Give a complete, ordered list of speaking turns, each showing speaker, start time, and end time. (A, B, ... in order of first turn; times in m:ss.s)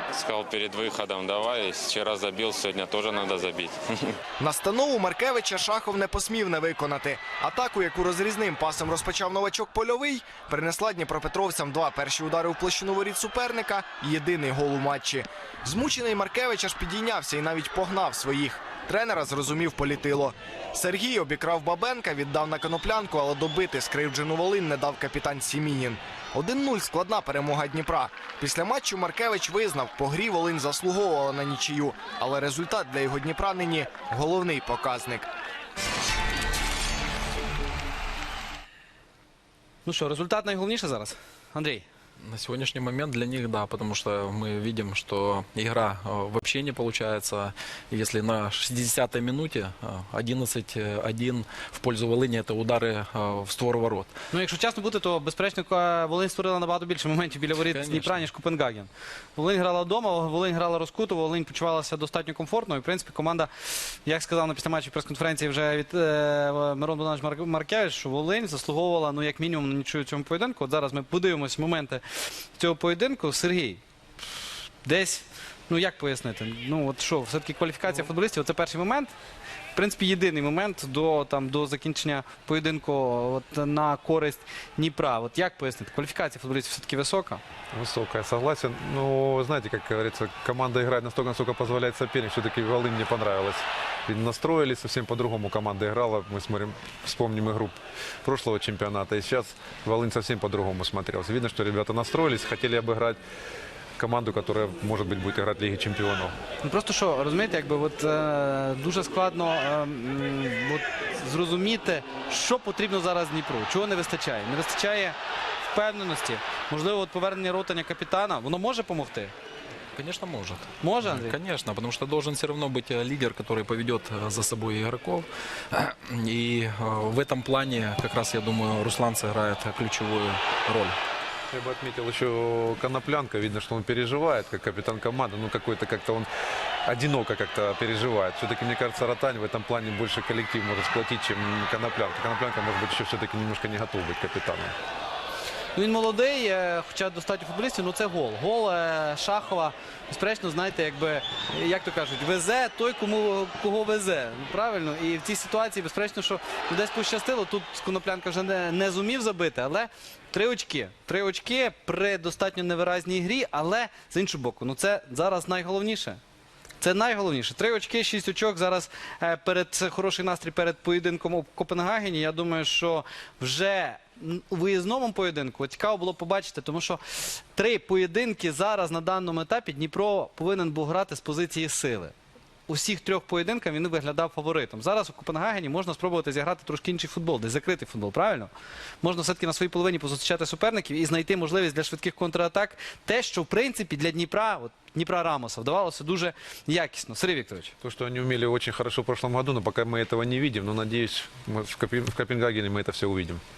0:00.1-0:04.1 A
0:04.4-0:35.3 B
0:39.8-0:41.8 C
0:42.2-0:54.1 D
0:54.3-1:12.0 C
0:57.6-0:58.2 D
1:12.6-1:13.8 C
1:14.8-1:19.1 C
1:19.7-1:27.4 C
1:27.7-1:43.2 E
1:44.0-1:46.3 E
1:46.6-1:59.3 C
1:59.9-2:11.0 D
2:00.8-2:01.4 C
2:11.5-2:16.3 E
2:16.8-2:24.6 E
2:25.7-2:46.2 C
2:46.8-3:02.1 C
3:02.7-3:08.5 C
3:09.0-3:17.7 C
3:17.8-3:23.4 E